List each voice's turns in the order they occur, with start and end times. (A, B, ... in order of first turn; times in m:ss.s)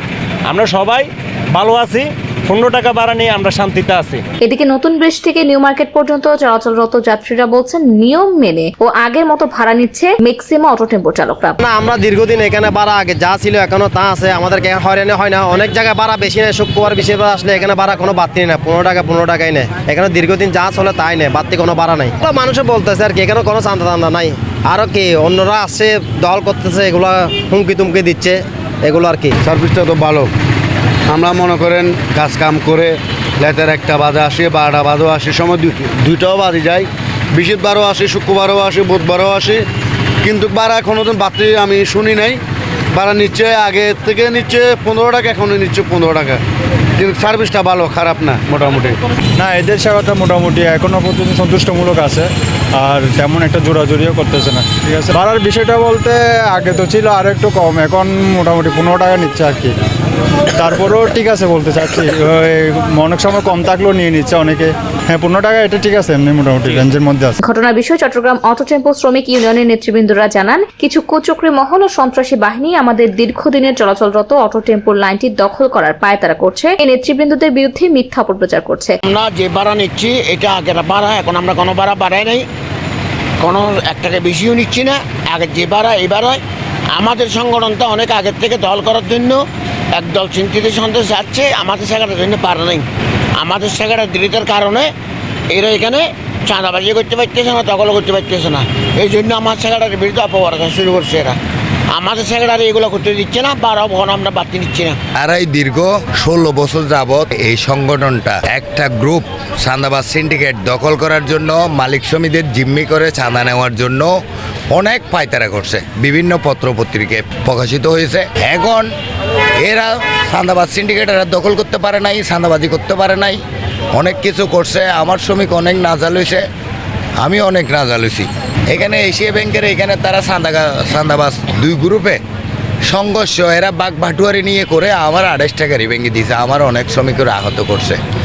0:00.5-0:04.2 A
0:04.4-0:11.6 B
0:11.6-0:29.3 C
0:29.4-0:30.3 D
0:31.1-0:39.6 D
0:40.2-0:42.4 D
0:42.9-0:46.4 D
0:47.0-0:49.0 D
0:49.4-0:59.8 E
1:00.6-1:07.4 E
1:07.4-1:19.0 B
1:19.0-1:22.4 F
1:23.4-1:26.4 F
1:26.9-1:29.4 F
1:30.0-1:32.9 F
1:33.4-1:34.9 F
1:35.5-1:41.4 F
1:41.9-1:45.0 F
1:45.2-1:54.1 G
1:54.7-1:58.9 G
1:59.6-2:03.4 G
2:04.0-2:06.4 G
2:07.2-2:12.2 G
2:12.9-2:18.0 G